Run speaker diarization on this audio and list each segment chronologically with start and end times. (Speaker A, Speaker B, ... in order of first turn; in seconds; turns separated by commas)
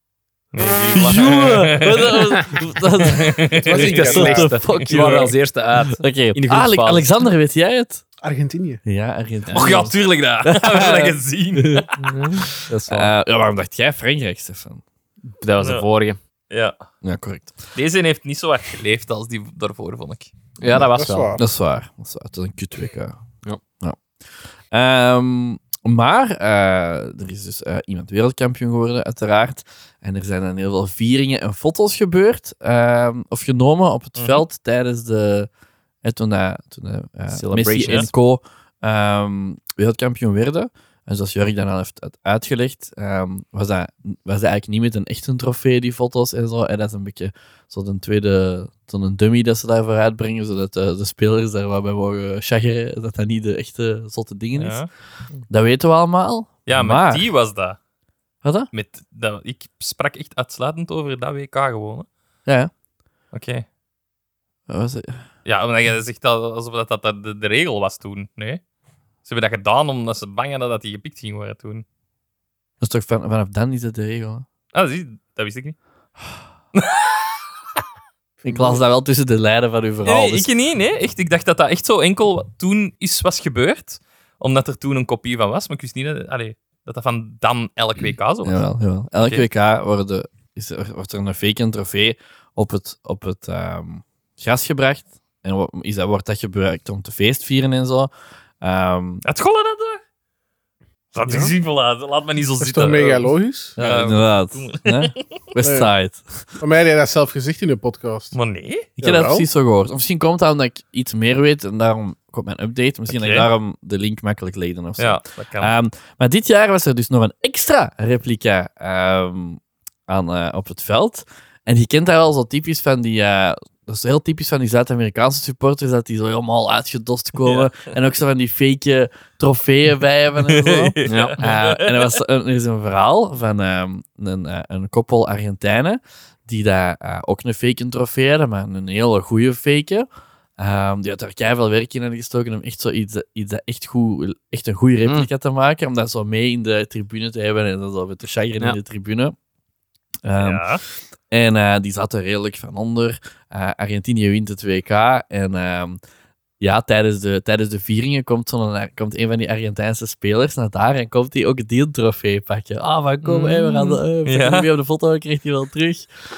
Speaker A: 0.5-2.3, Speaker B: 0.8-1.3, Speaker C: 0.9-8.0, Speaker A: 3.0-4.0, Speaker D: 3.5-4.5, Speaker B: 3.9-7.1, Speaker A: 4.8-5.3, Speaker D: 8.2-8.8, Speaker C: 8.8-14.8, Speaker A: 9.5-11.9, Speaker B: 12.0-13.1, Speaker B: 15.2-16.2, Speaker A: 15.6-15.8, Speaker A: 16.5-16.8, Speaker C: 17.0-17.5, Speaker A: 17.7-20.3, Speaker B: 20.6-21.3, Speaker D: 20.8-21.4, Speaker C: 21.4-23.2, Speaker C: 24.7-35.5, Speaker A: 34.1-34.4, Speaker C: 36.0-54.8, Speaker B: 37.3-38.1, Speaker A: 54.6-54.9, Speaker C: 55.5-57.3, Speaker A: 56.7-57.8, Speaker C: 58.4-58.7, Speaker A: 58.7-62.1, Speaker C: 62.5-62.7, Speaker A: 63.3-63.6, Speaker C: 64.7-65.2, Speaker A: 65.4-68.6, Speaker A: 69.2-71.8, Speaker C: 72.8-74.4, Speaker A: 74.7-75.8, Speaker A: 76.7-77.4, Speaker C: 78.4-80.5, Speaker A: 80.0-88.6, Speaker C: 88.4-99.2, Speaker A: 99.2-100.0, Speaker A: 101.1-105.2, Speaker D: 101.3-101.5, Speaker D: 102.6-103.8, Speaker C: 103.8-106.6, Speaker D: 105.6-105.9, Speaker D: 106.6-108.3, Speaker A: 108.3-108.9, Speaker C: 109.0-140.1, Speaker D: 109.0-109.5, Speaker A: 113.1-113.5, Speaker A: 115.0-115.7, Speaker A: 127.4-127.7, Speaker A: 130.5-132.2, Speaker B: 131.1-131.4, Speaker C: 140.6-149.3, Speaker C: 150.2-150.7, Speaker A: 150.4-150.8, Speaker C: 151.3-156.0, Speaker C: 156.6-166.1, Speaker A: 163.2-164.7